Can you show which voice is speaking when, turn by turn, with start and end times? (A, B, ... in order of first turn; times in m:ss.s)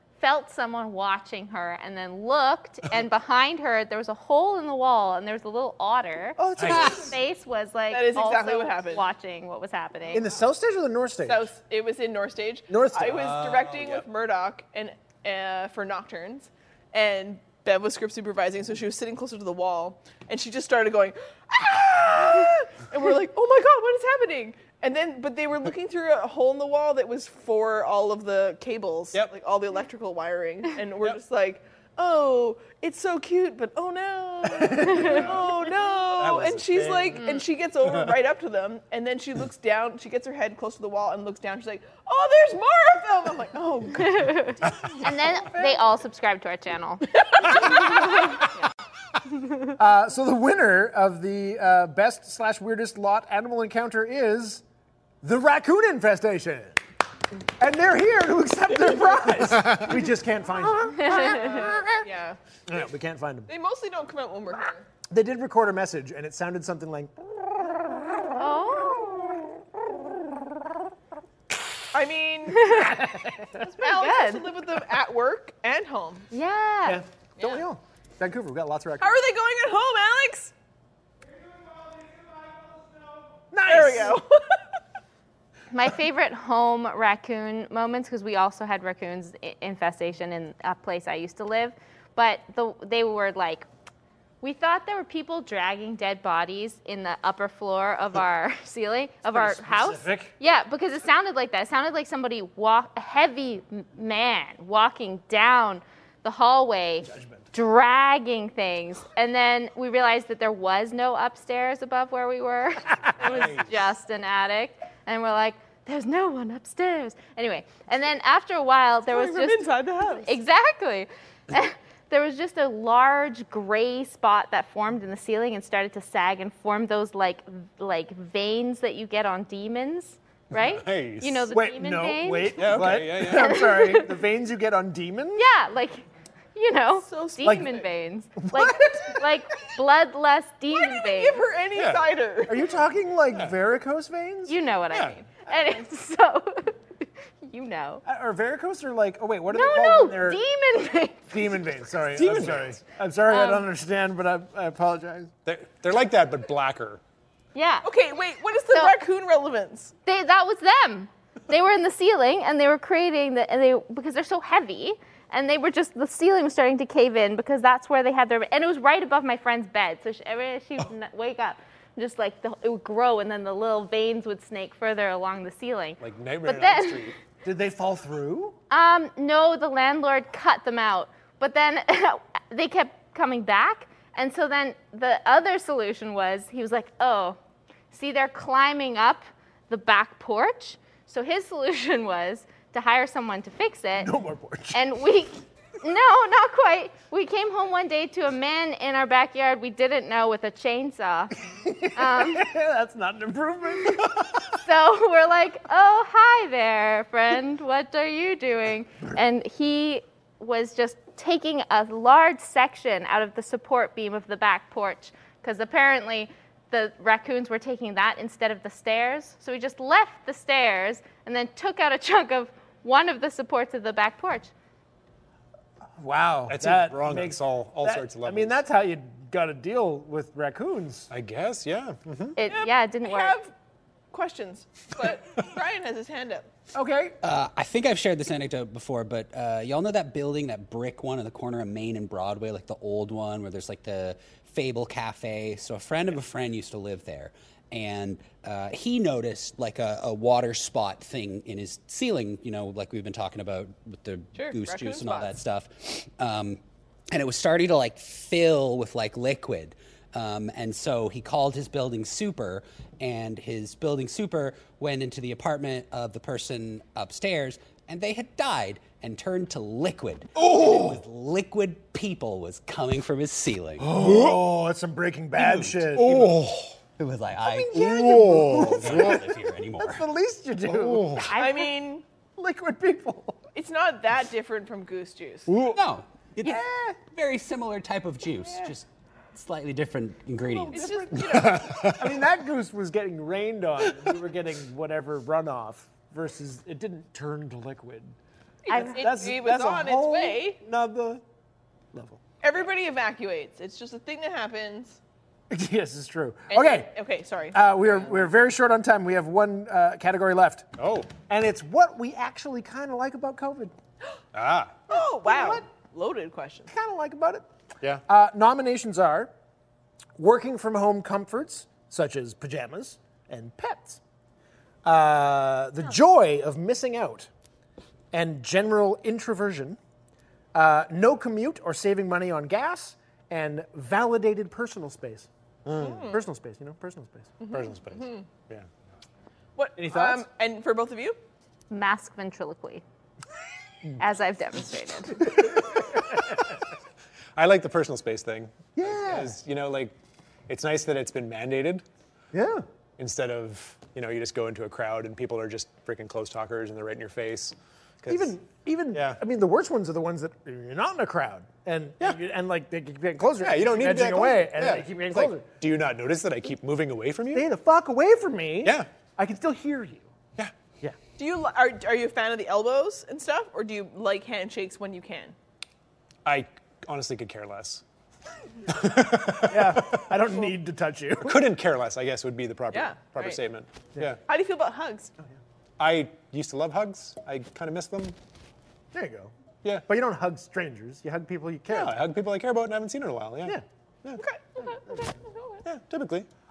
0:00.2-0:10.2 A
0:06.4-0:07.1 B
0:06.6-0:07.0 C
0:06.7-0:07.0 D
0:07.9-0:09.1 E
0:10.1-0:11.5 B
0:11.2-0:44.4 E
0:12.7-0:13.4 B
0:34.5-0:35.3 B
0:34.8-0:35.4 C
0:36.1-0:37.2 C
0:37.2-0:37.4 A
0:44.0-0:48.6 A
0:44.6-0:45.0 C
0:45.4-0:45.8 B
0:47.1-0:48.1 E
0:49.8-0:54.6 B
0:55.2-0:56.8 B
0:57.6-1:02.0 B
1:00.8-1:01.8 A
1:01.3-1:02.4 E
1:02.7-1:03.5 B
1:03.5-1:04.9 E
1:05.1-1:07.9 B
1:08.4-1:09.4 A
1:11.9-1:12.9 E
1:12.6-1:12.9 A
1:12.6-1:13.6 B
1:13.6-1:16.3 E
1:13.8-1:14.5 A
1:16.3-1:17.0 A
1:16.8-1:19.2 B
1:17.4-1:17.6 E
1:19.0-1:20.5 E
1:23.5-1:24.2 B
1:23.6-1:24.6 E
1:25.7-1:33.6 A
1:34.4-2:14.2 A
1:39.3-1:40.3 B
1:47.0-1:47.5 B
1:53.2-1:53.8 C
1:59.1-2:00.3 E
2:10.5-2:11.5 C
2:11.5-2:15.5 B
2:12.5-2:13.6 C
2:15.4-2:21.4 A
2:17.1-2:17.8 E
2:17.4-2:17.7 B
2:18.4-2:19.3 B
2:20.7-2:22.8 E
2:21.7-2:22.1 C
2:22.5-2:24.6 B
2:24.5-2:28.0 A
2:24.9-2:25.2 C
2:28.0-2:30.4 B
2:29.5-2:31.4 A
2:31.3-2:35.3 B
2:32.1-2:32.8 C
2:33.3-2:33.7 A
2:35.4-2:37.0 C
2:37.5-2:37.9 A
2:37.8-2:39.9 E
2:40.0-2:57.1 A
2:56.0-2:57.2 C
2:57.4-2:58.6 B
2:58.7-3:07.4 A
3:07.9-3:14.1 A
3:14.0-3:14.8 B
3:14.7-3:21.3 A
3:21.6-3:24.1 B
3:21.9-3:22.5 A
3:24.6-3:44.5 A
3:46.0-3:51.1 B
3:46.5-3:48.6 C
3:51.1-3:52.4 C
3:52.4-3:53.4 A
3:52.4-3:53.5 E
3:54.1-3:56.5 E
3:56.7-3:57.2 B
3:57.2-4:16.6 D
4:14.3-4:15.3 E
4:17.1-4:34.0 D
4:33.8-4:34.4 C
4:33.9-4:36.3 B
4:35.4-4:36.4 D
4:35.9-4:36.8 C
4:37.0-4:40.0 D
4:37.4-4:41.3 B
4:37.7-4:39.2 C
4:40.6-4:41.3 C
4:41.2-4:41.7 A
4:41.4-4:42.0 E
4:42.4-4:43.4 B
4:43.5-4:45.5 E
4:45.5-4:45.8 B
4:45.7-4:50.9 D
4:46.4-4:47.0 B
4:50.5-4:51.8 E
4:50.7-4:58.1 B
4:51.2-4:52.2 C
4:58.6-5:00.6 E
4:58.7-4:59.0 A
4:58.7-5:01.2 B
5:01.9-5:02.2 B
5:02.4-5:05.0 E
5:05.5-5:06.9 B
5:06.5-5:08.2 E
5:07.5-5:10.7 B
5:10.8-5:11.1 C
5:11.3-5:13.7 B
5:14.3-5:14.8 C
5:14.9-5:16.7 E
5:14.9-5:15.6 B
5:16.7-5:17.5 B
5:18.1-5:19.3 B
5:20.2-5:24.0 B
5:24.8-5:27.3 B
5:28.1-5:29.8 B
5:30.5-5:37.4 B
5:35.6-5:36.1 C
5:35.8-5:36.2 E
5:37.4-5:38.2 E
5:37.5-5:38.7 C
5:39.6-5:41.2 E
5:39.8-5:40.2 B
5:41.7-5:42.8 A
5:44.0-5:45.3 A
5:45.5-5:45.8 B
5:45.5-5:46.0 C
5:47.4-5:49.9 C
5:48.8-5:49.4 B
5:50.5-5:51.8 C
5:52.3-5:52.6 B
5:53.0-5:58.3 C
5:58.1-6:05.5 B
5:58.9-5:59.2 C
6:03.4-6:07.5 C
6:07.3-6:10.1 B
6:08.6-6:08.9 C
6:11.2-6:15.4 E
6:16.2-6:17.8 C
6:18.7-6:20.1 C
6:19.4-6:21.5 B
6:21.2-6:24.2 C
6:22.7-6:23.4 E
6:24.3-6:25.1 E
6:25.8-6:28.2 C
6:28.9-6:29.3 B
6:29.8-6:32.1 B
6:31.7-6:34.2 C
6:34.2-6:35.6 E
6:35.6-6:36.3 C